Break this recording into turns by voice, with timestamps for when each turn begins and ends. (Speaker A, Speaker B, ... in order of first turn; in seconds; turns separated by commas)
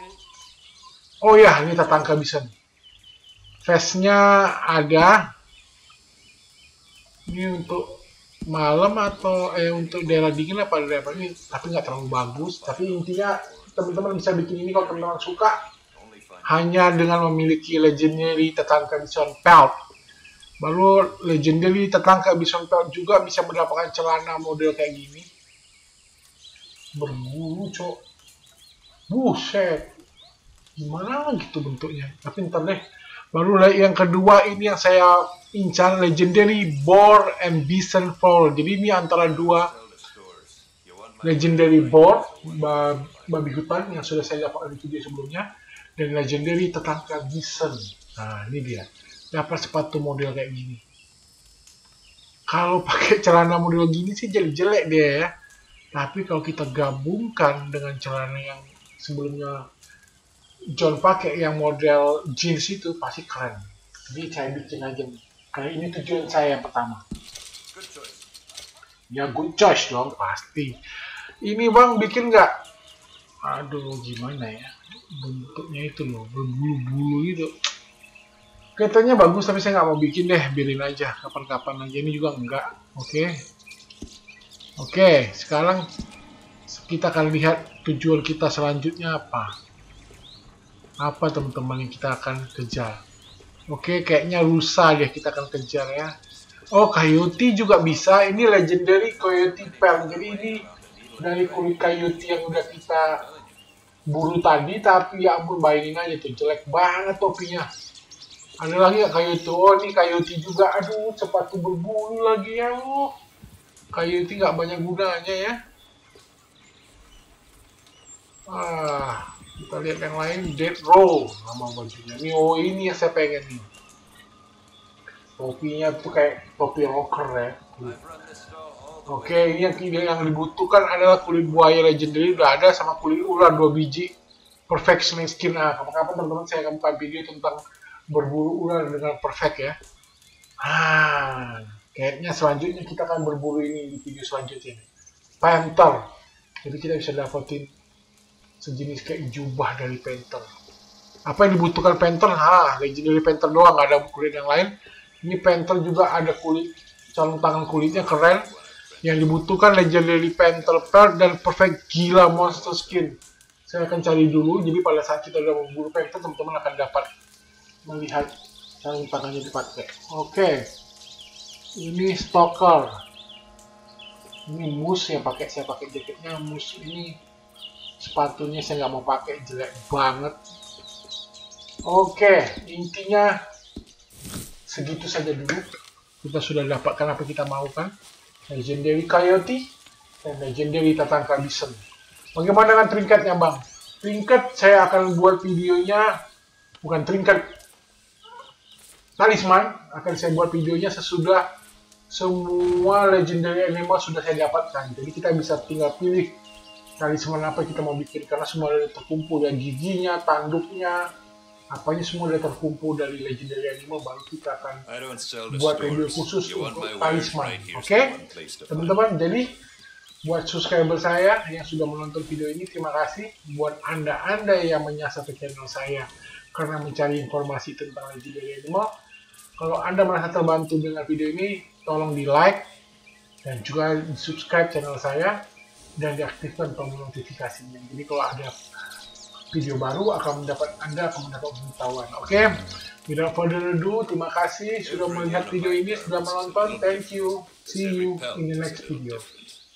Speaker A: 1.2-2.5, Speaker A: 3.6-5.2, Speaker A: 7.3-15.6, Speaker B: 8.9-16.9, Speaker A: 16.4-19.8, Speaker A: 20.6-25.3, Speaker A: 27.0-28.0, Speaker A: 29.1-29.9, Speaker A: 30.8-39.7, Speaker B: 39.2-43.7, Speaker A: 41.2-45.5, Speaker A: 46.0-50.8, Speaker A: 52.5-55.3, Speaker A: 55.9-59.6, Speaker A: 60.8-67.0, Speaker B: 67.7-68.2, Speaker A: 69.1-70.8, Speaker A: 71.5-72.5, Speaker A: 73.4-77.5, Speaker A: 78.8-83.4, Speaker A: 84.8-85.8, Speaker A: 86.7-89.5, Speaker A: 91.0-93.0, Speaker A: 93.7-96.1, Speaker A: 96.7-100.6, Speaker B: 97.3-103.6, Speaker A: 101.2-103.2, Speaker A: 104.1-107.7, Speaker A: 108.6-113.1, Speaker A: 113.9-115.6, Speaker A: 118.5-123.7, Speaker A: 125.4-128.0, Speaker B: 127.8-133.4, Speaker A: 129.1-134.1, Speaker A: 134.7-139.8, Speaker A: 140.6-144.9, Speaker A: 145.4-146.0, Speaker A: 146.7-147.7, Speaker A: 148.6-150.5, Speaker A: 151.3-154.7, Speaker A: 155.2-158.5, Speaker B: 157.7-163.1, Speaker A: 159.0-167.1, Speaker A: 167.9-168.3, Speaker A: 168.8-170.6, Speaker A: 171.8-172.9, Speaker A: 174.5-177.1, Speaker A: 178.0-180.3, Speaker A: 181.9-183.4, Speaker A: 184.7-185.7, Speaker A: 186.2-187.9, Speaker A: 188.5-191.8, Speaker A: 192.3-196.2, Speaker A: 196.8-197.5, Speaker A: 199.2-201.4, Speaker A: 202.1-206.4, Speaker A: 207.0-211.1, Speaker A: 211.7-214.8, Speaker B: 214.9-219.1, Speaker A: 215.5-218.2, Speaker A: 218.7-219.6, Speaker A: 220.2-228.9, Speaker A: 229.6-232.7, Speaker A: 233.4-235.4, Speaker A: 236.0-238.5, Speaker A: 239.5-249.2, Speaker B: 244.8-249.6